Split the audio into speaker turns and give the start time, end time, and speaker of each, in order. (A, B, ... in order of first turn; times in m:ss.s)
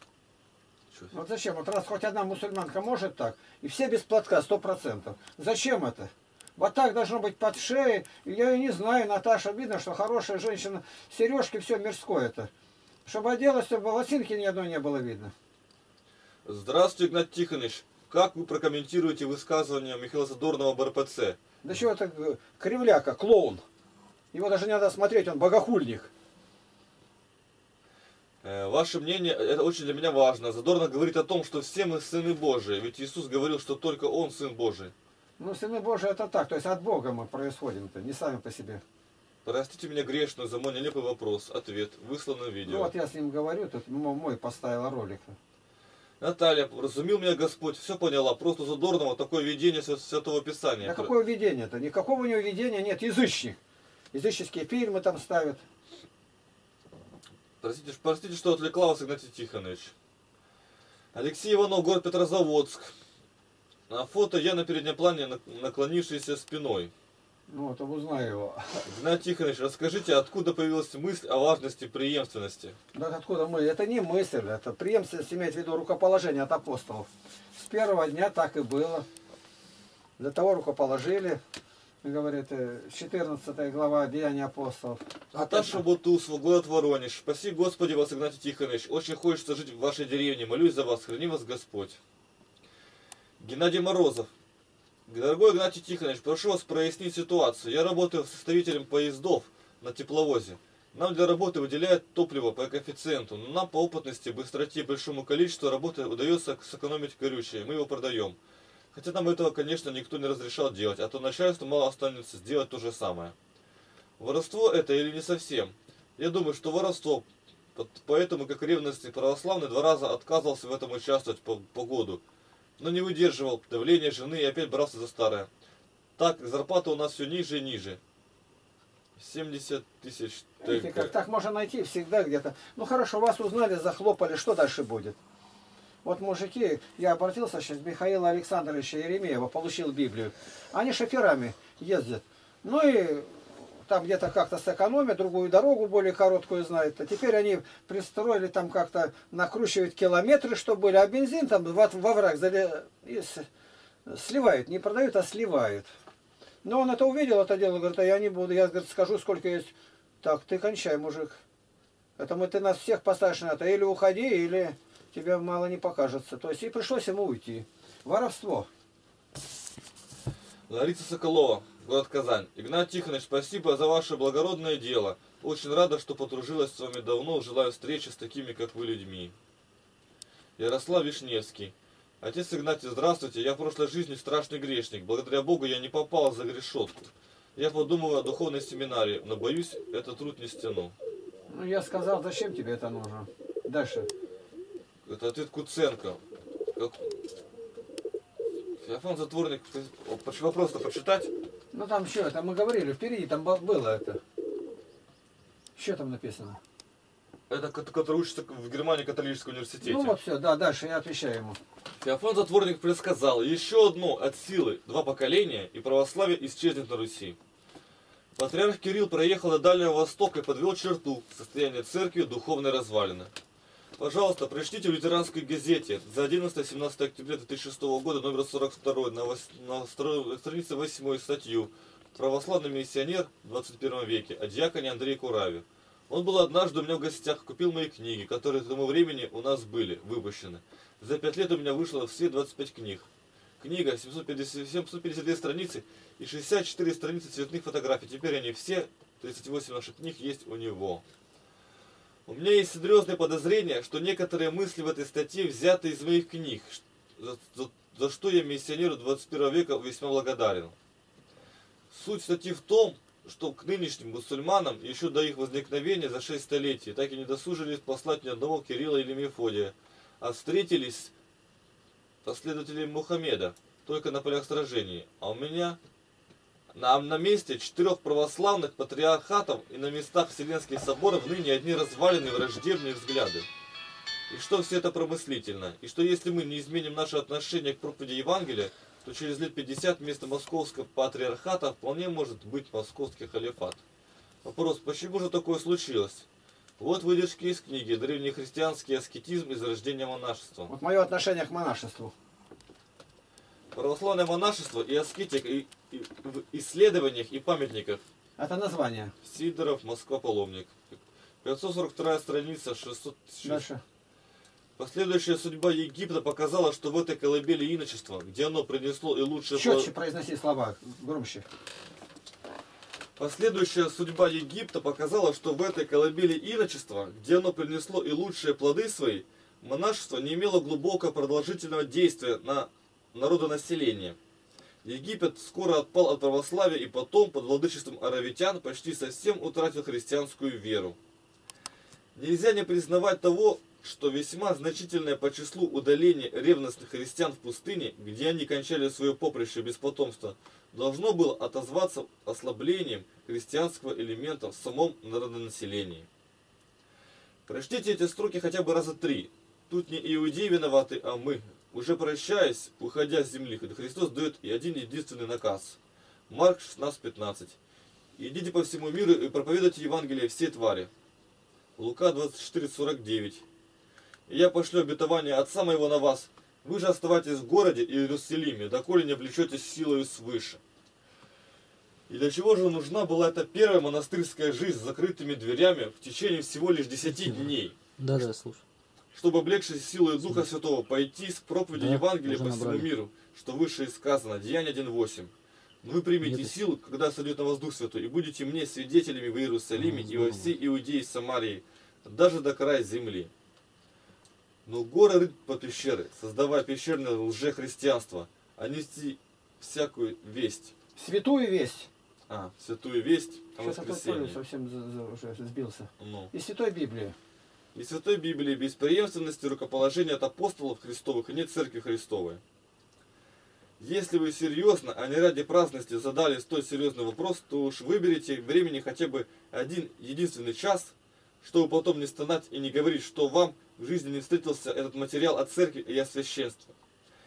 0:01.1-0:12.5 A
0:13.0-0:15.3 A
0:16.4-0:21.4 B
0:21.6-0:23.6 A
0:24.3-0:26.1 A
0:28.4-0:34.9 B
0:35.4-0:38.8 A
0:39.4-0:42.9 B
0:42.7-0:45.4 A
0:46.2-0:51.1 B
0:50.8-0:53.6 A
0:54.1-0:55.6 A
0:57.6-0:59.9 B
1:01.1-1:02.9 B
1:03.9-1:06.9 B
1:07.5-1:08.9 A
1:08.8-1:12.8 B
1:12.9-1:19.1 A
1:20.2-1:21.4 A
1:22.0-1:25.8 A
1:25.3-1:32.0 B
1:33.4-1:34.3 B
1:35.1-1:48.4 B
1:48.9-1:53.3 B
1:54.2-2:02.2 B
2:02.8-2:05.5 B
2:06.2-2:08.0 B
2:09.2-2:11.1 B
2:10.6-2:15.2 A
2:16.0-2:33.4 A
2:34.0-2:35.9 A
2:36.6-2:39.7 A
2:40.2-2:41.4 A
2:42.2-2:48.7 A
2:50.7-2:59.3 B
3:00.6-3:10.9 B
3:11.5-3:14.1 A
3:15.0-3:16.2 B
3:16.7-3:17.2 B
3:18.8-3:21.3 B
3:21.7-3:24.2 A
3:25.8-3:26.6 A
3:27.5-3:30.2 B
3:29.8-3:31.6 A
3:32.0-3:37.4 B
3:38.4-3:43.3 B
3:44.0-4:03.1 B
4:03.6-4:11.0 B
4:12.3-4:20.7 B
4:21.9-4:31.1 B
4:32.2-4:35.8 B
4:36.7-4:43.5 B
4:44.3-4:53.8 B
4:54.4-4:56.3 B
4:56.8-5:00.7 B
5:00.7-5:02.1 A
5:03.7-5:08.0 B
5:08.4-5:09.1 A
5:09.2-5:13.6 B
5:13.4-5:13.8 A
5:14.8-5:19.9 B
5:19.5-5:21.4 A
5:23.2-5:34.2 B
5:34.8-5:41.0 B
5:42.1-5:56.1 B
5:57.5-6:07.6 B
6:08.2-6:10.9 B
6:11.8-6:13.4 B
6:14.3-6:20.6 B
6:22.1-6:27.8 B
6:28.0-6:28.6 C
6:29.1-6:35.3 B
6:31.7-6:32.9 C
6:35.8-6:43.3 B
6:36.2-6:36.5 C
6:39.9-6:40.4 C
6:44.7-6:50.7 B
6:51.0-6:51.9 A
6:52.3-6:54.4 B
6:53.6-6:57.2 A
6:56.0-6:56.3 B
6:57.7-7:02.4 B
7:03.8-7:16.7 B